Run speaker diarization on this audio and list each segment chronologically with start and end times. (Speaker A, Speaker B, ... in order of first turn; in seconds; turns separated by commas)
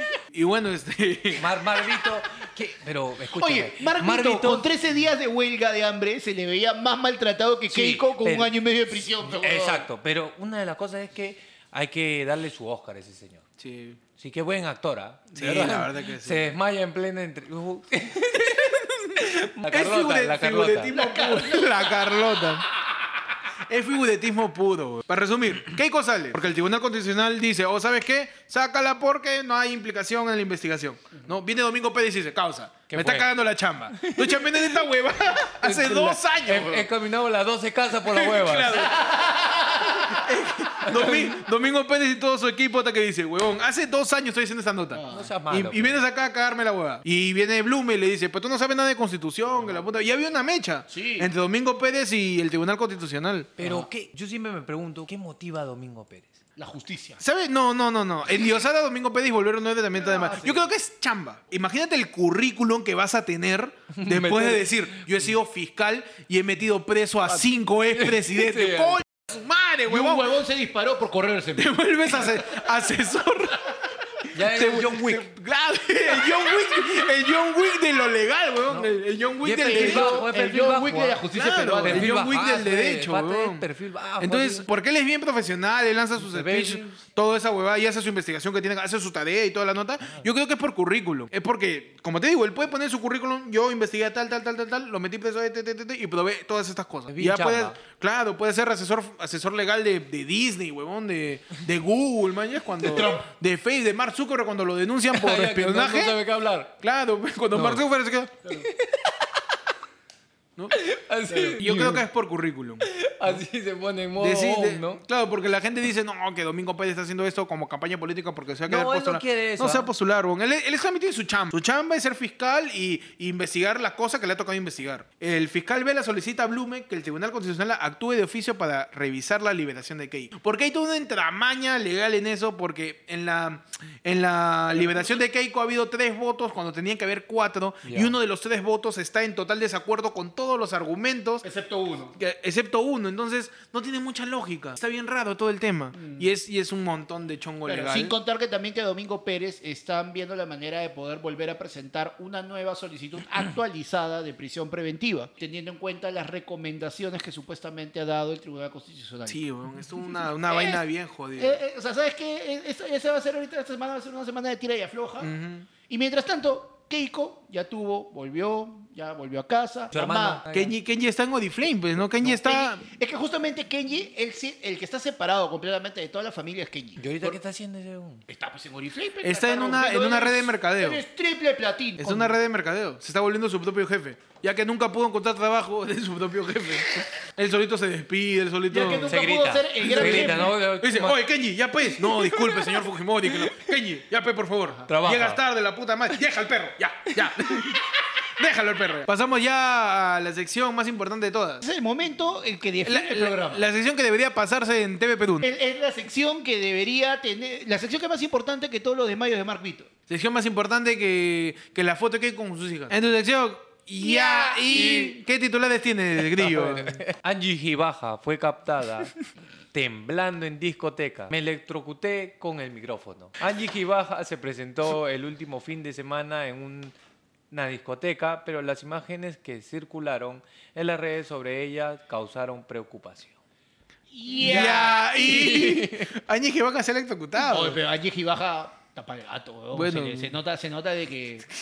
Speaker A: 0.3-1.5, Speaker B: 1.4-4.7, Speaker C: 3.4-9.9, Speaker B: 7.7-8.5, Speaker B: 9.2-13.4, Speaker A: 13.6-14.0, Speaker B: 14.2-21.0, Speaker A: 15.3-16.5, Speaker A: 18.6-22.7, Speaker C: 20.9-23.0, Speaker A: 23.7-36.9, Speaker B: 32.9-33.3, Speaker B: 33.9-34.8, Speaker B: 35.6-38.9, Speaker A: 38.1-39.1, Speaker C: 38.9-40.2, Speaker A: 40.0-53.6, Speaker B: 40.9-41.4, Speaker C: 44.9-45.3, Speaker B: 45.1-46.0, Speaker C: 50.9-51.3, Speaker B: 53.6-56.4, Speaker C: 53.6-53.9, Speaker C: 56.6-57.2, Speaker A: 57.2-70.3, Speaker C: 60.0-60.7, Speaker B: 63.9-64.7, Speaker B: 67.9-69.0, Speaker C: 69.9-71.8, Speaker A: 71.6-80.2, Speaker B: 74.3-75.3, Speaker B: 79.4-81.2, Speaker C: 79.6-82.1, Speaker A: 81.3-83.6, Speaker B: 81.8-84.7, Speaker A: 84.2-106.2, Speaker B: 86.2-87.0, Speaker B: 97.1-97.8, Speaker C: 102.8-103.3, Speaker B: 105.1-106.7, Speaker A: 106.8-108.4, Speaker B: 107.5-107.8, Speaker B: 108.5-109.4, Speaker B: 110.7-112.0, Speaker A: 111.3-113.4, Speaker B: 112.8-115.0, Speaker A: 114.2-141.4, Speaker B: 118.7-119.9, Speaker C: 134.8-135.1, Speaker B: 137.9-138.1, Speaker C: 141.4-142.2, Speaker A: 142.2-148.1, Speaker C: 146.0-146.3, Speaker C: 147.7-159.4, Speaker A: 159.3-161.6, Speaker C: 160.1-160.8, Speaker C: 161.4-165.3, Speaker A: 165.2-165.7, Speaker C: 165.9-170.4, Speaker B: 169.9-170.7, Speaker A: 170.5-172.8, Speaker C: 172.2-177.3, Speaker B: 177.0-178.3, Speaker C: 178.3-182.4, Speaker A: 179.2-181.0, Speaker A: 182.0-189.2, Speaker C: 188.7-190.5, Speaker B: 189.1-191.2, Speaker A: 189.8-201.6, Speaker B: 192.0-192.7, Speaker B: 194.9-195.4, Speaker C: 201.6-203.6, Speaker A: 202.8-205.4, Speaker C: 205.4-209.9, Speaker A: 210.1-217.0, Speaker C: 214.0-215.2, Speaker B: 216.4-219.1, Speaker B: 219.7-226.9, Speaker B: 227.5-233.4, Speaker C: 234.1-235.8, Speaker A: 234.4-237.8, Speaker B: 235.2-236.1, Speaker C: 237.4-241.5, Speaker A: 239.7-240.3